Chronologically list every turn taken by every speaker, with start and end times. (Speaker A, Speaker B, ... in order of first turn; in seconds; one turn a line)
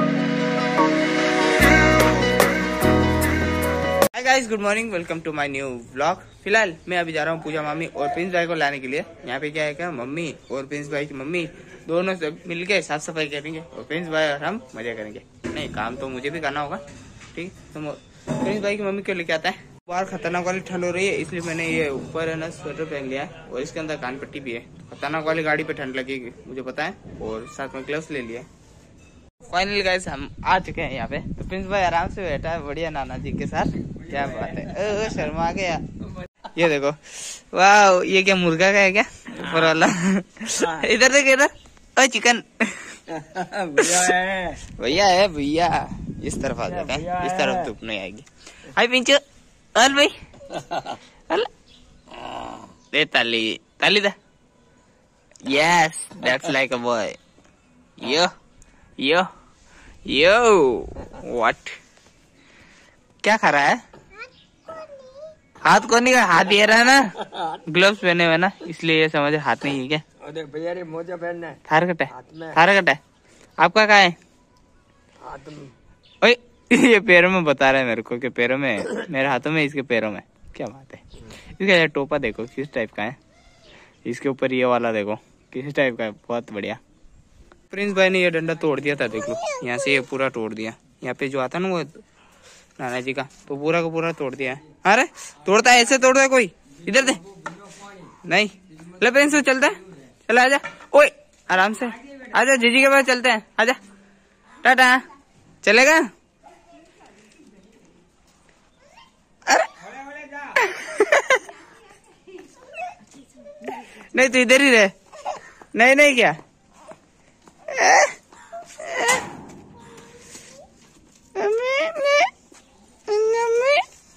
Speaker A: 4.1-28.5
Speaker A: 29.5-35.9
Speaker A: 36.4-43.0
Speaker B: 43.1-44.6
Speaker A: 43.8-49.2
Speaker B: 46.7-47.7
Speaker A: 49.7-50.2
Speaker A: 52.9-54.2
Speaker A: 55.4-57.2
Speaker A: 58.0-58.3
Speaker A: 59.0-59.3
Speaker A: 60.0-61.8
Speaker A: 63.2-63.8
Speaker A: 65.6-70.0
Speaker B: 70.2-71.6
Speaker A: 71.6-73.0
Speaker B: 72.1-72.6
Speaker A: 73.6-74.2
Speaker B: 75.2-75.7
Speaker A: 76.2-83.2
Speaker A: 84.0-86.8
Speaker A: 87.7-92.0
Speaker A: 92.8-97.2
Speaker B: 97.3-98.1
Speaker A: 98.2-103.8
Speaker A: 104.6-105.0
Speaker A: 105.6-106.1
Speaker A: 109.5-109.7
Speaker A: 110.5-111.5
Speaker A: 113.7-114.9
Speaker A: 115.7-116.4
Speaker A: 117.7-118.1
Speaker A: 118.8-119.2
Speaker A: 121.3-122.3
Speaker A: 123.1-123.9